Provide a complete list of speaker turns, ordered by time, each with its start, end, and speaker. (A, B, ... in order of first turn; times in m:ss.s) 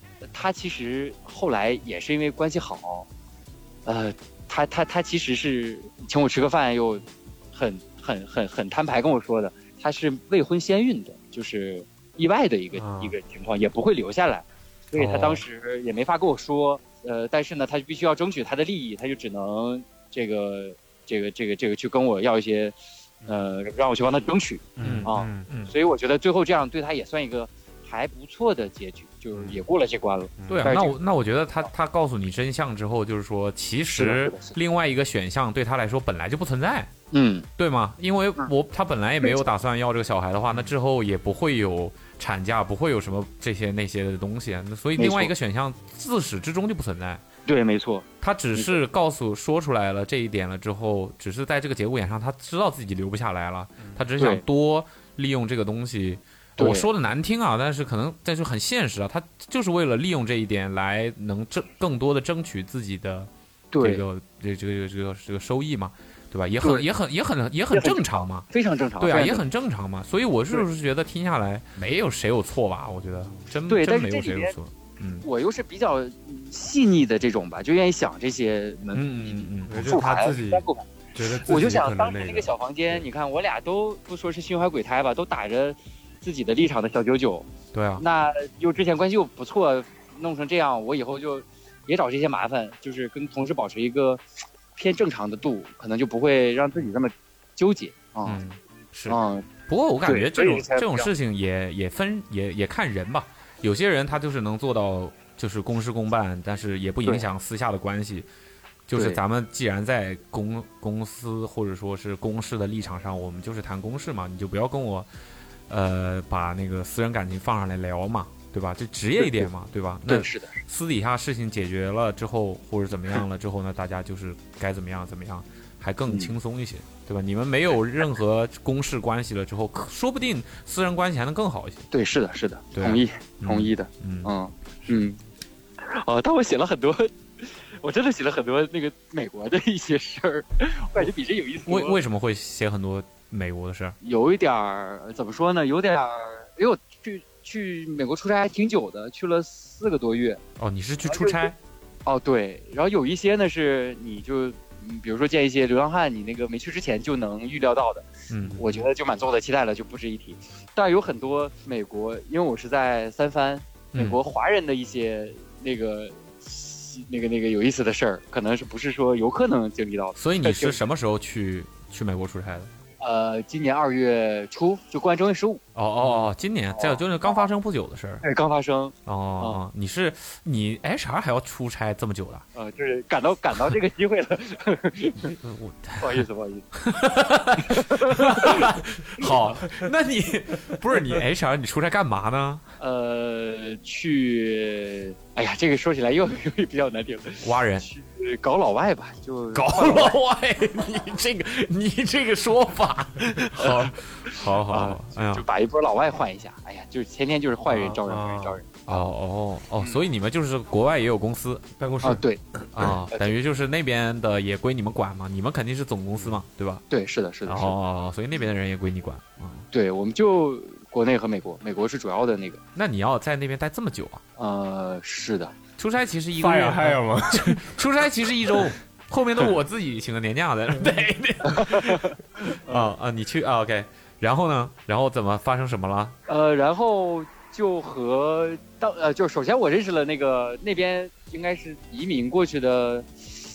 0:00.3-0:03.1 A
0:03.9-0:31.0 A
0:12.7-0:13.2 B
0:15.0-0:15.4 B
0:24.8-0:25.5 B
0:24.8-0:25.7 C
0:29.4-0:29.6 B
0:30.4-0:30.8 B
0:30.5-0:36.9 C
0:33.9-0:34.6 A
0:37.1-0:37.5 A
0:37.6-0:47.2 C
0:45.0-0:45.3 A
0:47.5-0:48.8 A
0:48.2-1:08.5 C
0:54.2-0:54.4 A
0:56.6-0:56.9 A
1:03.7-1:04.0 A
1:06.6-1:06.9 A
1:07.7-1:09.4 A
1:09.0-1:15.3 C
1:13.7-1:14.5 A
1:15.2-1:34.2 A
1:18.9-1:19.9 C
1:19.7-1:23.1 B
1:27.7-1:28.0 C
1:34.8-1:38.4 A
1:38.2-1:48.3 C
1:39.1-1:39.5 A
1:40.0-1:41.1 A
1:48.9-1:55.1 C
1:48.9-1:49.2 A
1:55.7-2:11.9 C
1:59.2-1:59.5 A
2:00.1-2:00.6 A
2:06.1-2:06.3 A
2:11.9-2:15.2 A
2:12.8-2:14.3 C
2:15.8-2:22.0 A
2:21.7-2:24.0 C
2:24.0-2:30.4 A
2:30.6-2:31.6 C
2:31.0-2:31.5 A
2:32.0-2:38.1 A
2:38.3-2:38.8 C
2:38.6-2:50.8 A
2:43.9-2:44.2 C
2:50.2-2:52.7 C
2:53.0-2:55.6 A
2:55.8-2:58.2 C
2:56.7-2:57.4 A
2:58.2-2:59.6 A
2:59.1-3:02.4 C
3:02.6-3:05.3 A
3:05.3-3:06.2 C
3:06.0-3:06.6 A
3:06.8-3:12.6 C
3:07.6-3:08.7 A
3:12.8-3:20.2 A
3:17.4-3:17.9 C
3:19.5-3:25.4 C
3:23.6-3:23.9 A
3:24.6-3:29.1 A
3:27.8-3:28.6 B
3:28.9-3:31.6 C
3:31.8-3:32.2 B
3:32.0-3:32.4 A
3:32.7-3:36.8 C
3:36.9-3:37.8 A
3:37.5-3:39.7 C
3:39.7-3:42.6 A
3:42.8-3:44.2 C
3:44.4-3:45.6 A
3:45.8-3:52.1 C
3:46.4-3:47.8 B
3:51.6-3:51.9 A
3:52.7-3:56.2 C
3:56.3-4:03.1 A